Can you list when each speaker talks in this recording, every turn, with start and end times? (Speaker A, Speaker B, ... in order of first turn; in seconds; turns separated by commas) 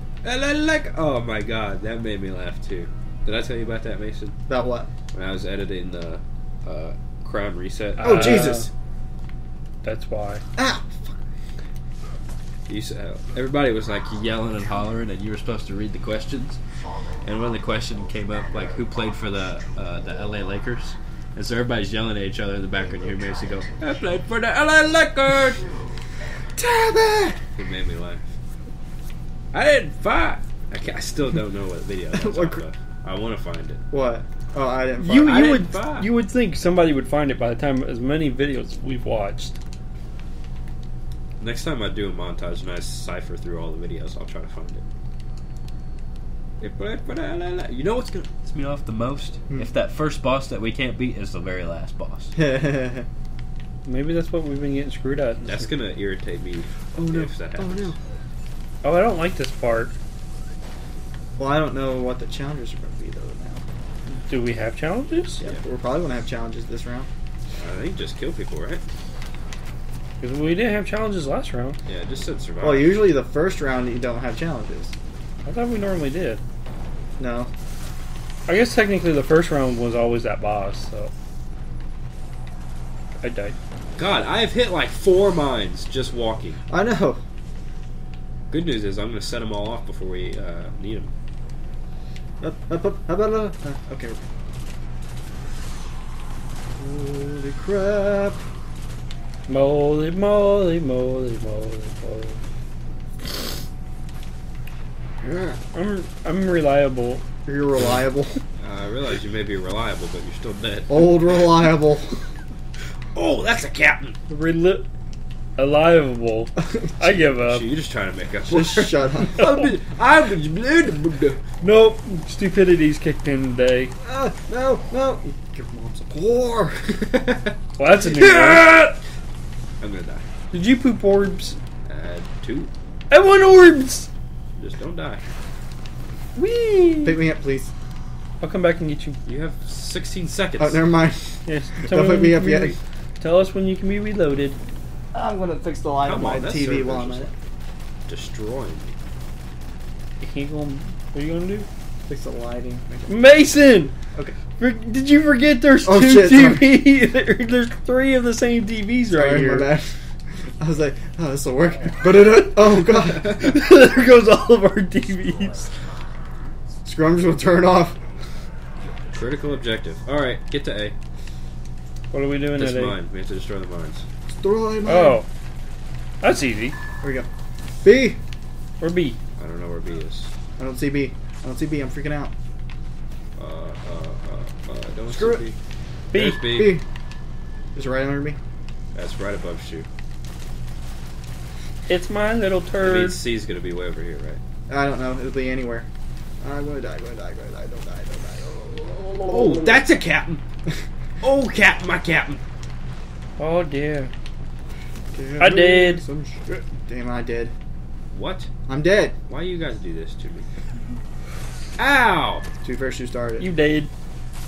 Speaker A: 0.2-4.4, Speaker B: 4.5-4.9, Speaker A: 5.1-8.5, Speaker C: 8.0-8.7, Speaker B: 8.0-8.7, Speaker C: 9.8-10.4, Speaker B: 10.6-11.2, Speaker A: 12.7-16.6, Speaker A: 17.2-25.6, Speaker B: 26.5-27.4, Speaker A: 27.6-28.3, Speaker A: 29.5-33.8, Speaker B: 32.1-32.6, Speaker B: 33.9-35.5, Speaker C: 35.0-39.6, Speaker A: 35.2-36.1, Speaker A: 41.4-44.8, Speaker A: 46.6-52.3, Speaker B: 52.4-53.1, Speaker C: 53.9-55.7, Speaker A: 55.4-58.0, Speaker B: 56.9-58.0, Speaker C: 58.8-59.9, Speaker B: 61.4-63.6, Speaker C: 64.1-65.4, Speaker B: 65.4-67.1, Speaker A: 67.6-68.8, Speaker C: 70.2-71.8, Speaker A: 71.9-73.0, Speaker B: 72.6-74.9, Speaker C: 75.5-76.4, Speaker B: 77.2-77.5, Speaker C: 78.5-81.1, Speaker C: 83.2-83.5, Speaker A: 84.0-86.6, Speaker B: 86.7-87.2, Speaker A: 88.5-91.1, Speaker B: 92.4-94.2, Speaker B: 96.8-98.4, Speaker C: 99.5-102.4, Speaker B: 105.2-105.6, Speaker C: 105.7-107.2, Speaker B: 107.5-108.4, Speaker A: 108.6-111.4, Speaker B: 110.9-112.2, Speaker A: 113.1-114.2, Speaker C: 114.3-114.9, Speaker C: 115.6-117.7, Speaker B: 116.5-117.0, Speaker A: 117.0-121.4, Speaker B: 118.5-119.6, Speaker C: 121.6-123.9, Speaker B: 124.0-127.0, Speaker A: 127.0-129.0, Speaker C: 127.8-128.8, Speaker A: 129.8-130.2, Speaker C: 130.5-131.6, Speaker A: 131.9-132.7, Speaker C: 133.1-134.1, Speaker A: 134.6-135.2, Speaker C: 136.3-137.2, Speaker B: 137.0-137.7, Speaker C: 138.4-139.2, Speaker A: 139.2-140.9, Speaker B: 140.6-142.8, Speaker C: 141.5-144.6, Speaker B: 145.1-147.3, Speaker A: 146.0-147.3, Speaker A: 148.1-148.9, Speaker C: 150.2-151.7, Speaker B: 152.1-153.2, Speaker C: 153.1-153.9, Speaker C: 154.6-159.7, Speaker B: 155.8-156.7, Speaker B: 159.1-160.0, Speaker B: 160.6-163.6, Speaker C: 163.2-165.8, Speaker B: 166.8-168.0, Speaker A: 169.1-170.9, Speaker C: 172.1-173.0, Speaker A: 172.5-174.0, Speaker B: 174.3-175.2, Speaker C: 174.9-175.3, Speaker C: 176.2-176.8, Speaker B: 177.0-177.3, Speaker B: 177.8-178.2, Speaker C: 178.8-179.2, Speaker A: 179.4-180.3, Speaker B: 180.6-182.3, Speaker A: 183.4-185.6, Speaker B: 185.1-185.4, Speaker C: 186.1-186.5, Speaker A: 186.1-186.8, Speaker B: 186.4-186.8, Speaker B: 187.8-188.4, Speaker A: 188.9-189.9, Speaker C: 191.9-193.2, Speaker A: 192.8-194.4, Speaker B: 194.7-195.9, Speaker B: 196.4-199.8, Speaker A: 199.3-200.4, Speaker A: 201.2-202.4, Speaker C: 203.4-204.1, Speaker B: 205.1-207.5, Speaker C: 205.4-206.0, Speaker A: 208.1-208.5, Speaker B: 208.7-209.2, Speaker A: 209.3-210.5, Speaker A: 211.8-212.5, Speaker B: 212.6-213.5, Speaker C: 213.4-213.9